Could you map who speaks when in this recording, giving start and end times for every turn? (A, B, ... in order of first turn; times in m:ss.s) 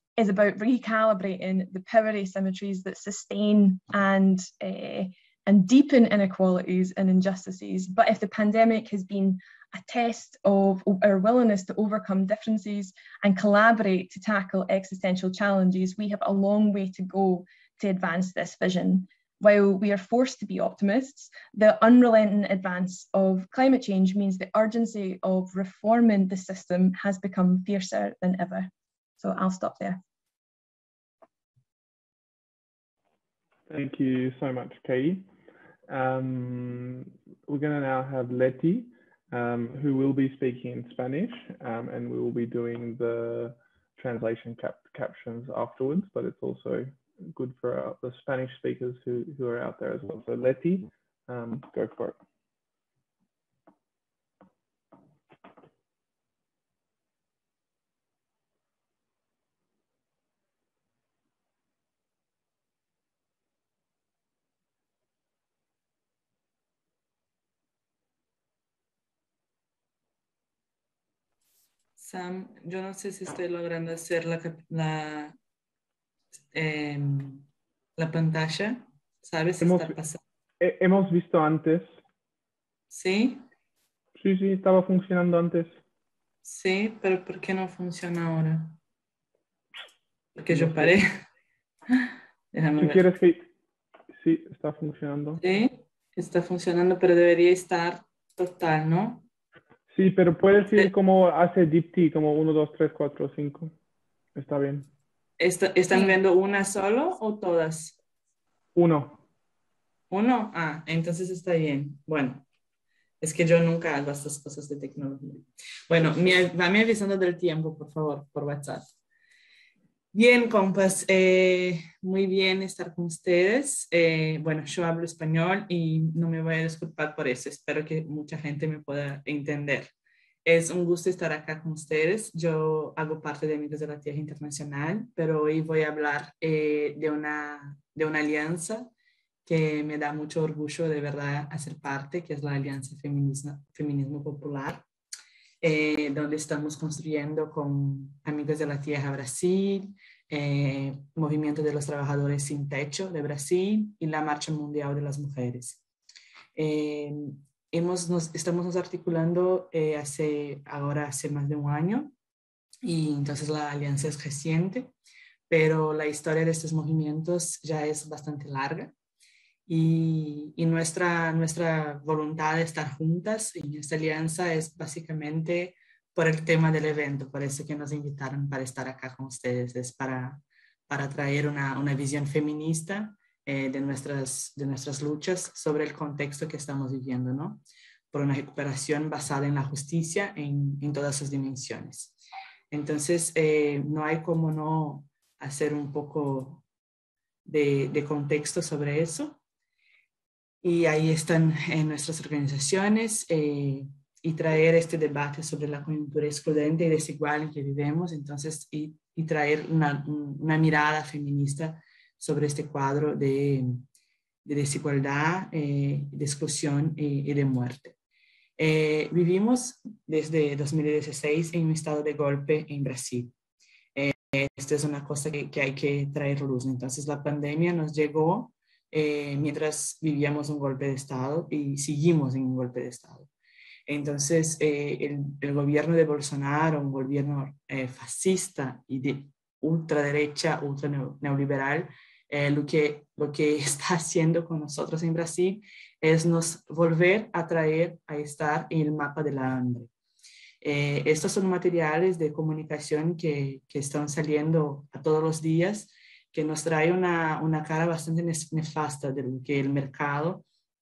0:00.2-0:30.0 A
0:33.7-0:35.3 B
0:35.9-0:52.2 B
1:12.0-1:15.4 C
1:16.5-1:20.2 C
1:19.6-1:20.0 B
1:20.6-1:21.9 B
1:22.9-1:23.4 C
1:24.2-1:25.8 B
1:26.4-1:28.8 C
1:30.4-1:31.2 C
1:30.5-1:30.9 B
1:31.9-1:33.1 C
1:32.8-1:33.5 B
1:34.2-1:35.4 B
1:35.4-1:39.3 C
1:39.9-1:43.7 B
1:44.4-1:44.9 B
1:45.4-1:48.0 C
1:48.8-1:49.2 B
1:50.1-1:52.4 C
1:53.2-1:58.9 C
2:00.1-2:09.9 C
2:10.4-2:18.9 C
2:19.4-2:24.8 C
2:25.6-2:35.8 C
2:36.6-2:42.1 C
2:42.8-2:44.9 C
2:45.5-2:48.9 C
2:49.7-3:12.2 C
3:12.7-3:16.6 C
3:17.4-3:19.4 C
3:20.6-3:33.8 C
3:34.4-3:38.0 C
3:38.6-3:43.3 C
3:43.9-3:53.3 C
3:53.9-4:09.9 C
4:10.6-4:20.4 C